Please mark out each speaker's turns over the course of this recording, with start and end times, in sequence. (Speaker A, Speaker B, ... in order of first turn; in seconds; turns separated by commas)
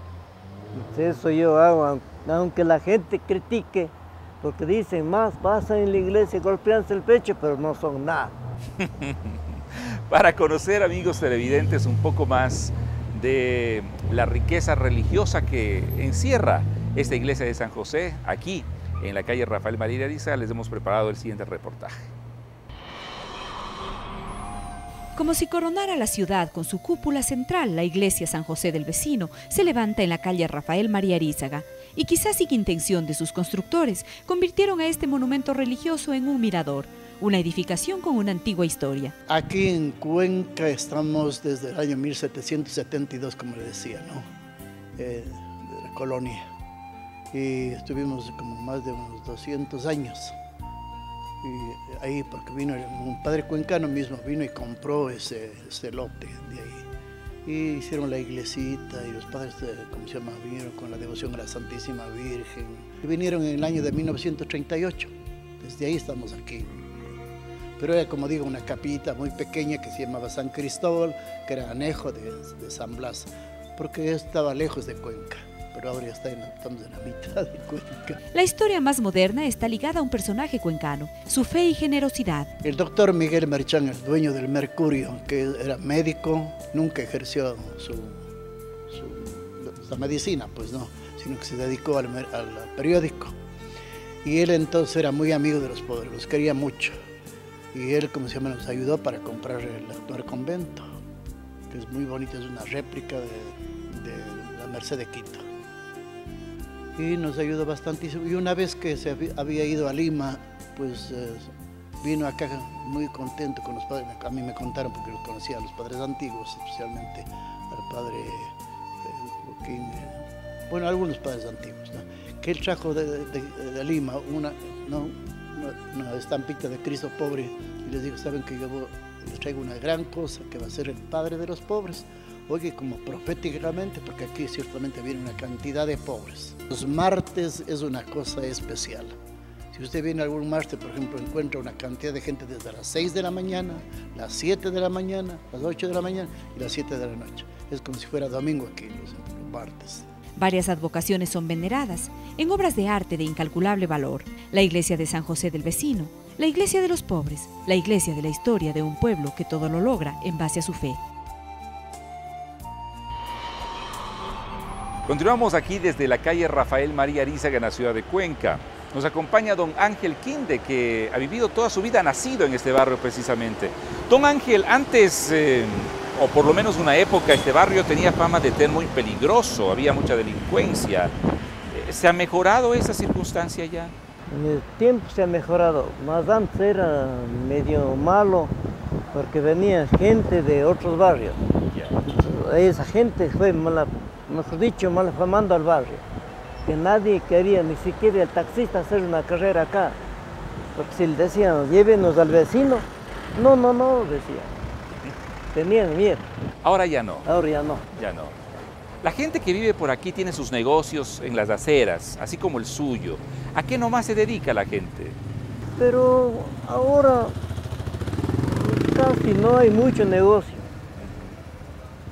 Speaker A: 0.7-8.3, Speaker B: 8.8-22.1, Speaker C: 25.1-39.1, Speaker D: 39.3-44.2, Speaker D: 45.0-46.4, Speaker D: 47.3-50.4, Speaker D: 51.4-56.9, Speaker D: 57.4-67.0, Speaker D: 67.8-78.2, Speaker C: 78.3-82.5, Speaker D: 82.6-88.2, Speaker D: 88.9-93.3, Speaker D: 94.2-96.9, Speaker D: 97.7-100.9, Speaker D: 101.7-105.4, Speaker D: 107.0-139.1, Speaker D: 139.7-150.1, Speaker C: 150.3-161.0, Speaker B: 165.1-181.1, Speaker B: 181.7-183.9, Speaker A: 184.3-188.5, Speaker A: 189.1-191.4, Speaker B: 191.7-192.0, Speaker A: 192.0-196.0, Speaker A: 196.6-200.0, Speaker A: 200.7-204.6, Speaker A: 205.5-206.3, Speaker B: 206.6-207.3, Speaker A: 207.2-207.8, Speaker B: 207.9-208.3, Speaker B: 209.0-215.2, Speaker A: 215.8-217.3, Speaker A: 218.4-220.7, Speaker B: 221.0-221.3